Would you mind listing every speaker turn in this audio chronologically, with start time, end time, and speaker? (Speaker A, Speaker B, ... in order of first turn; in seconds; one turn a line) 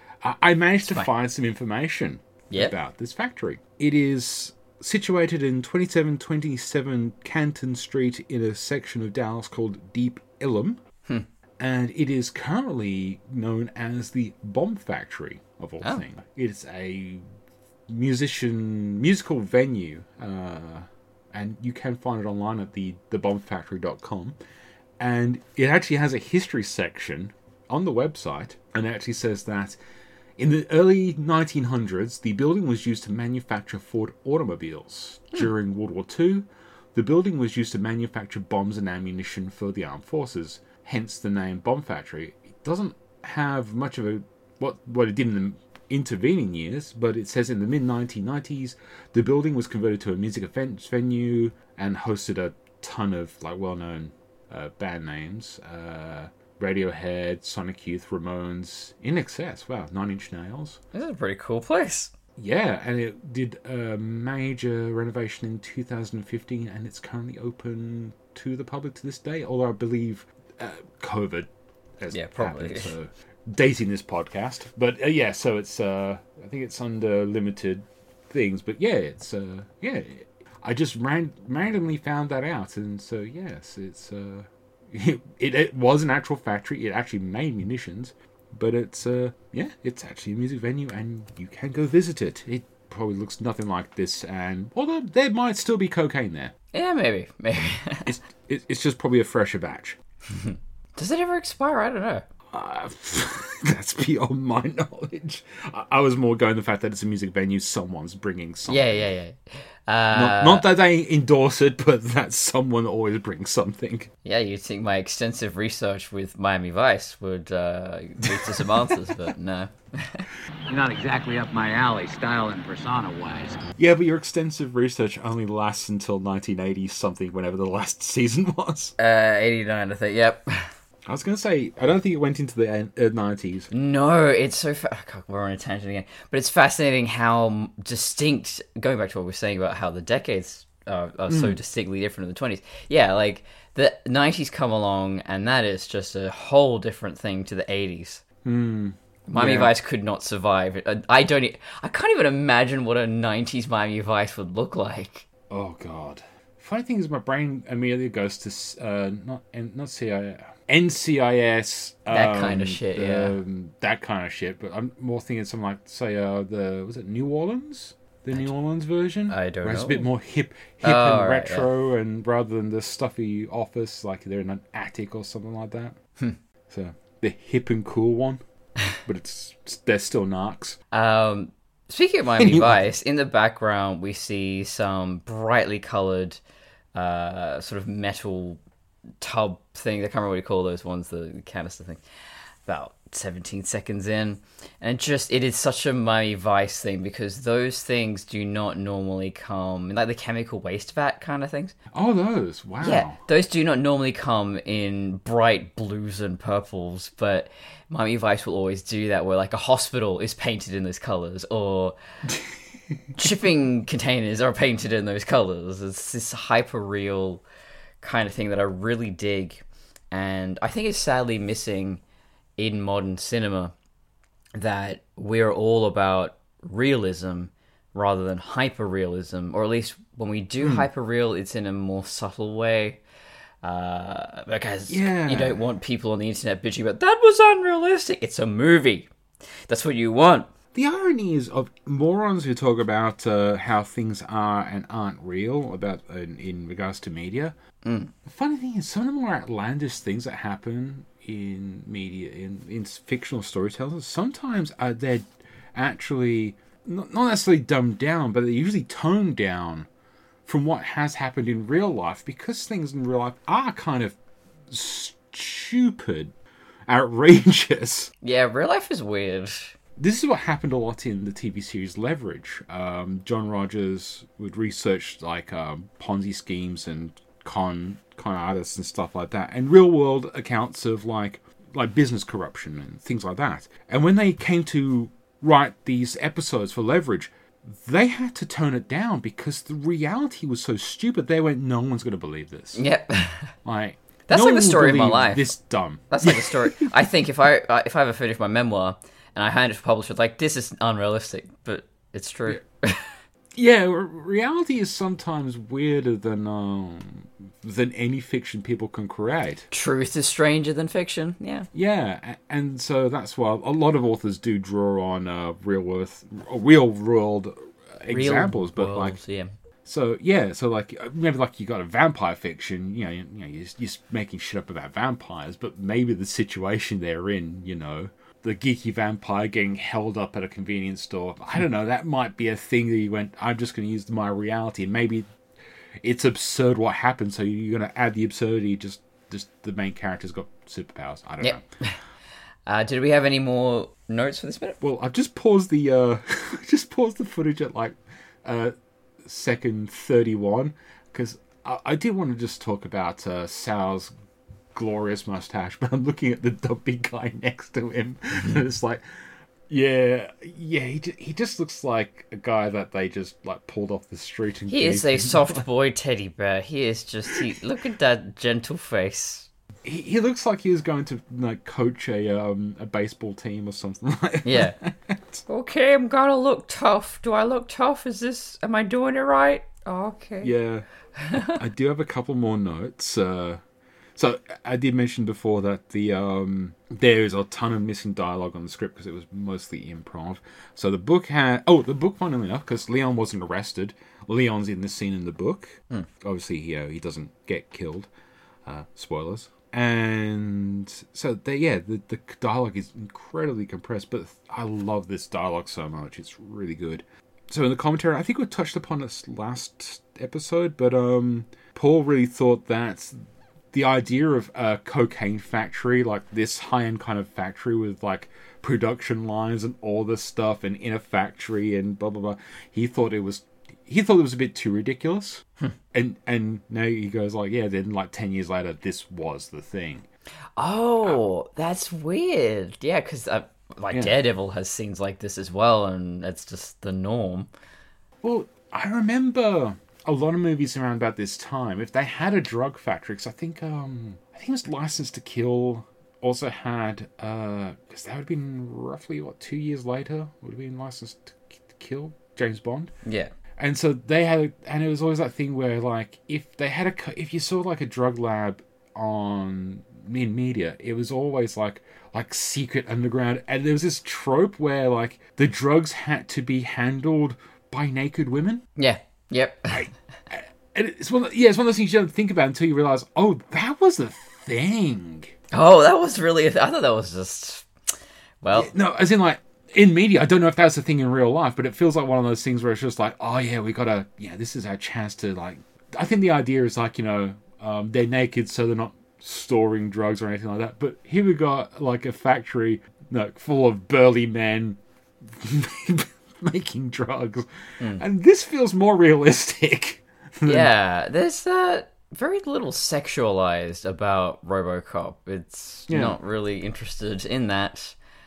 Speaker A: 0.2-10.8
Speaker A: 11.6-17.2
Speaker A: 17.9-24.4
Speaker A: 25.0-29.8
Speaker A: 30.4-60.8
Speaker B: 60.9-62.1
Speaker A: 62.4-96.5
Speaker B: 72.1-72.9
Speaker B: 96.7-98.1
Speaker A: 98.0-100.0
Speaker B: 100.3-102.2
Speaker A: 102.5-109.1
Speaker B: 108.7-110.7
Speaker A: 110.1-114.1
Speaker B: 114.2-120.3
Speaker A: 118.2-119.3
Speaker C: 120.8-121.0
Speaker C: 121.7-123.4
Speaker A: 123.7-128.9
Speaker B: 129.0-130.7
Speaker A: 131.1-133.7
Speaker B: 133.7-148.2
Speaker A: 141.3-141.6
Speaker A: 148.4-149.7
Speaker B: 149.3-155.2
Speaker A: 155.5-175.9
Speaker B: 162.1-163.4
Speaker B: 169.3-170.1
Speaker B: 170.8-171.7
Speaker A: 176.7-178.4
Speaker A: 179.0-180.8
Speaker B: 180.9-186.4
Speaker A: 182.4-182.8
Speaker B: 186.9-188.6
Speaker B: 189.2-192.0
Speaker B: 192.7-201.8
Speaker A: 201.9-203.2
Speaker B: 202.8-211.9
Speaker B: 213.2-217.4
Speaker B: 218.0-222.0
Speaker B: 222.6-223.7
Speaker B: 224.6-233.0
Speaker A: 230.6-230.9
Speaker B: 233.6-239.1
Speaker A: 234.9-235.6
Speaker B: 239.7-240.5
Speaker A: 240.7-247.5
Speaker B: 247.8-248.1
Speaker A: 248.2-259.9
Speaker A: 260.4-264.2
Speaker A: 264.7-266.3
Speaker A: 266.9-268.1
Speaker B: 268.2-269.8
Speaker A: 270.0-292.8
Speaker B: 292.7-293.5
Speaker A: 293.6-296.9
Speaker B: 294.3-295.5
Speaker B: 296.1-303.1
Speaker A: 303.5-309.7
Speaker B: 309.7-311.7
Speaker A: 311.7-319.2
Speaker B: 318.1-319.5
Speaker A: 319.8-335.2
Speaker A: 336.0-341.7
Speaker B: 341.4-342.0
Speaker B: 342.6-344.8
Speaker A: 344.8-354.1
Speaker A: 354.7-359.0
Speaker A: 359.7-365.6
Speaker B: 364.7-369.5
Speaker A: 369.8-375.4
Speaker B: 374.4-374.8
Speaker B: 375.5-380.5
Speaker A: 380.4-383.6
Speaker B: 381.2-381.5
Speaker A: 384.1-398.1
Speaker A: 398.6-413.2
Speaker A: 413.7-430.1
Speaker B: 430.6-437.5
Speaker A: 438.2-452.9
Speaker B: 453.0-453.3
Speaker A: 453.6-468.6
Speaker B: 468.8-469.9
Speaker A: 469.7-475.3
Speaker B: 475.5-477.7
Speaker B: 478.4-478.7
Speaker A: 478.5-500.7
Speaker B: 500.4-507.9
Speaker A: 505.9-506.2